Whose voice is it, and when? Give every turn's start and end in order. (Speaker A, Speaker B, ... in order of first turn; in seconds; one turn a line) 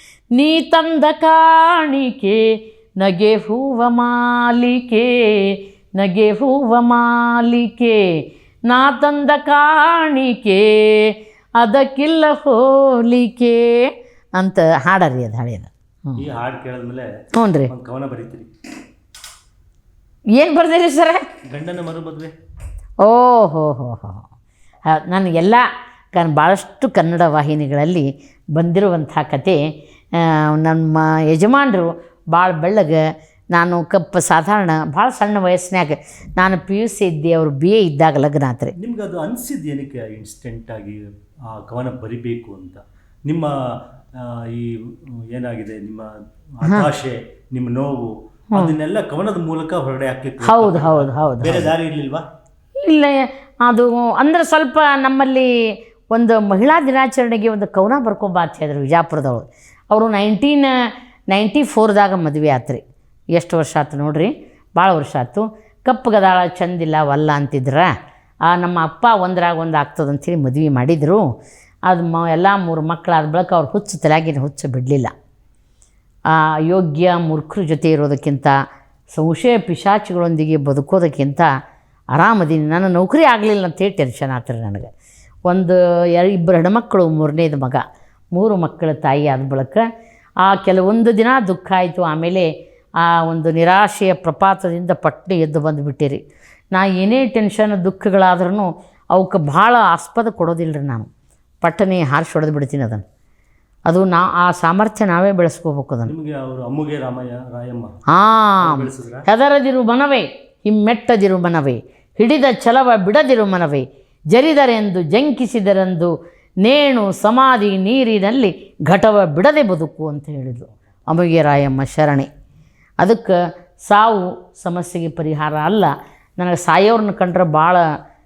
Speaker A: 0.3-16.2
Speaker B: 16.2-17.1
Speaker A: 17.3-17.7
Speaker B: 17.7-18.5
Speaker A: 20.4-21.2
Speaker B: 21.5-22.3
Speaker A: 23.0-24.2
Speaker A: 24.9-29.6
Speaker A: 30.2-33.0
Speaker A: 33.5-38.7
Speaker B: 38.8-43.5
Speaker B: 44.2-52.3
Speaker A: 46.6-46.9
Speaker A: 50.4-51.7
Speaker A: 52.8-60.8
Speaker A: 61.3-62.8
Speaker A: 63.3-67.9
Speaker A: 68.5-71.2
Speaker A: 71.9-75.1
Speaker A: 76.3-78.6
Speaker A: 79.1-81.5
Speaker A: 82.1-84.9
Speaker A: 85.5-89.8
Speaker A: 90.4-92.5
Speaker A: 93.0-101.1
Speaker A: 101.6-103.0
Speaker A: 103.9-106.1
Speaker B: 106.1-108.0
Speaker A: 108.1-116.1
Speaker B: 108.6-109.3
Speaker A: 116.6-122.3
Speaker A: 123.0-127.8